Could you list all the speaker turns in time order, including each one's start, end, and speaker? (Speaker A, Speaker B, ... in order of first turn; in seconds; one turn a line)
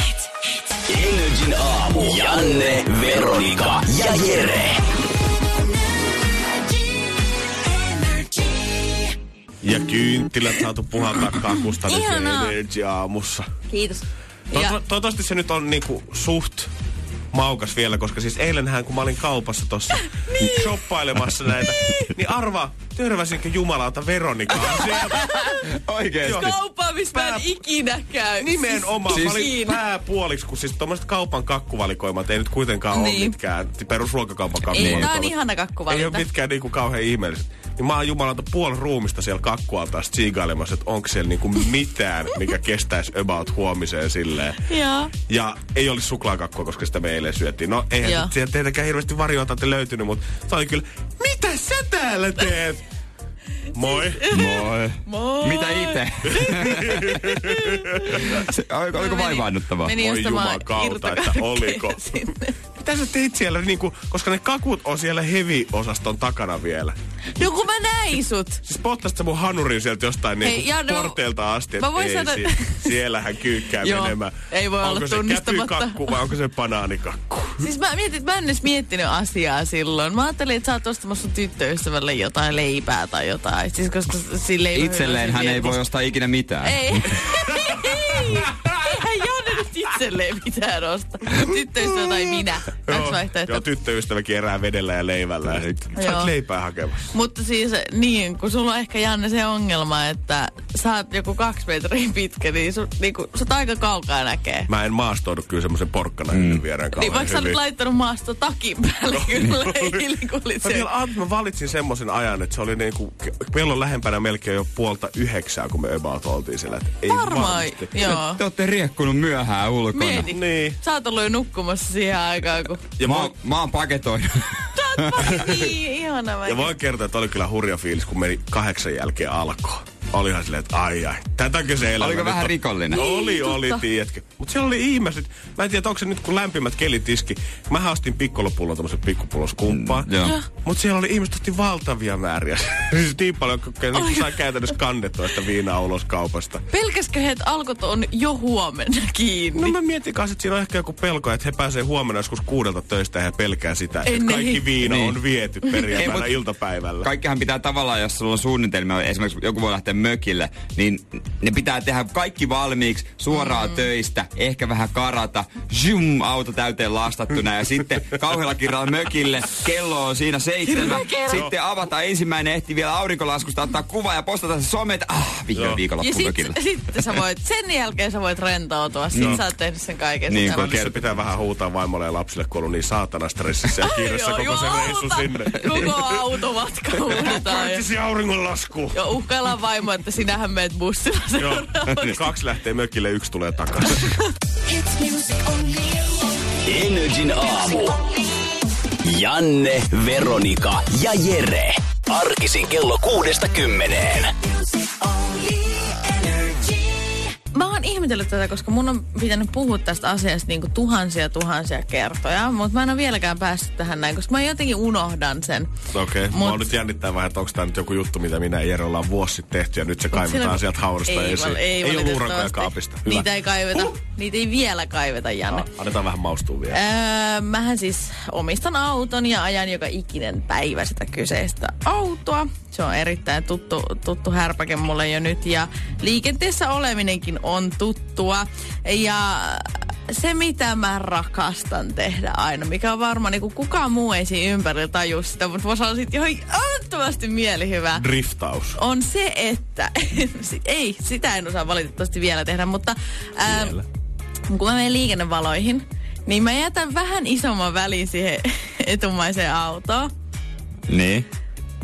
Speaker A: 0.9-4.8
Speaker B: 3.9-4.6
Speaker C: 9.6-13.5
Speaker B: 11.8-12.6
Speaker B: 13.7-14.8
Speaker C: 14.5-16.7
Speaker C: 17.3-25.3
Speaker B: 20.2-20.7
Speaker B: 21.7-22.1
Speaker D: 24.7-26.6
Speaker B: 24.8-25.7
Speaker C: 26.2-26.6
Speaker B: 26.3-29.8
Speaker C: 27.1-27.4
Speaker C: 28.4-35.4
Speaker B: 32.9-33.4
Speaker B: 34.7-36.3
Speaker D: 34.8-35.1
Speaker C: 35.9-44.6
Speaker B: 44.7-45.1
Speaker C: 45.3-52.8
Speaker B: 48.0-48.3
Speaker C: 53.7-54.3
Speaker B: 53.8-56.8
Speaker D: 54.3-57.4
Speaker C: 56.5-58.2
Speaker B: 57.5-58.2
Speaker D: 58.2-60.0
Speaker B: 59.0-62.5
Speaker C: 60.0-62.1
Speaker C: 62.8-67.0
Speaker B: 67.4-68.6
Speaker C: 68.7-77.7
Speaker B: 70.4-71.2
Speaker B: 71.7-73.0
Speaker B: 73.8-76.2
Speaker B: 77.6-85.8
Speaker D: 84.8-87.0
Speaker B: 86.6-93.6
Speaker C: 92.9-97.1
Speaker D: 95.5-95.8
Speaker B: 96.0-96.3
Speaker B: 97.1-104.7
Speaker C: 104.7-107.6
Speaker D: 106.3-106.6
Speaker B: 106.9-110.9
Speaker C: 109.1-110.0
Speaker C: 110.6-118.2
Speaker B: 117.0-118.4
Speaker D: 118.2-120.3
Speaker B: 119.9-122.9
Speaker C: 120.3-120.8
Speaker D: 123.0-125.3
Speaker B: 124.8-126.8
Speaker C: 126.5-146.6
Speaker D: 132.0-133.1
Speaker B: 132.9-133.8
Speaker D: 139.7-140.4
Speaker B: 143.9-144.3
Speaker B: 146.7-149.8
Speaker C: 149.6-157.1
Speaker B: 154.1-154.8
Speaker D: 154.8-155.2
Speaker B: 155.7-156.1
Speaker D: 155.9-156.4
Speaker D: 157.0-176.6
Speaker B: 170.7-171.5
Speaker C: 171.2-171.5
Speaker C: 175.5-175.8
Speaker B: 176.0-180.9
Speaker D: 179.1-179.4
Speaker D: 180.3-180.9
Speaker C: 180.6-185.9
Speaker B: 183.8-187.9
Speaker C: 187.3-189.0
Speaker B: 188.9-192.2
Speaker C: 191.4-194.2
Speaker B: 194.8-195.8
Speaker A: 196.7-198.0
Speaker A: 199.0-204.3
Speaker B: 205.0-215.7
Speaker C: 215.9-223.9
Speaker B: 216.3-216.7
Speaker B: 220.1-225.7
Speaker C: 225.5-226.8
Speaker B: 226.7-248.1
Speaker C: 247.9-248.8
Speaker B: 248.8-253.8
Speaker C: 253.4-253.8
Speaker B: 254.5-260.1
Speaker D: 260.9-261.3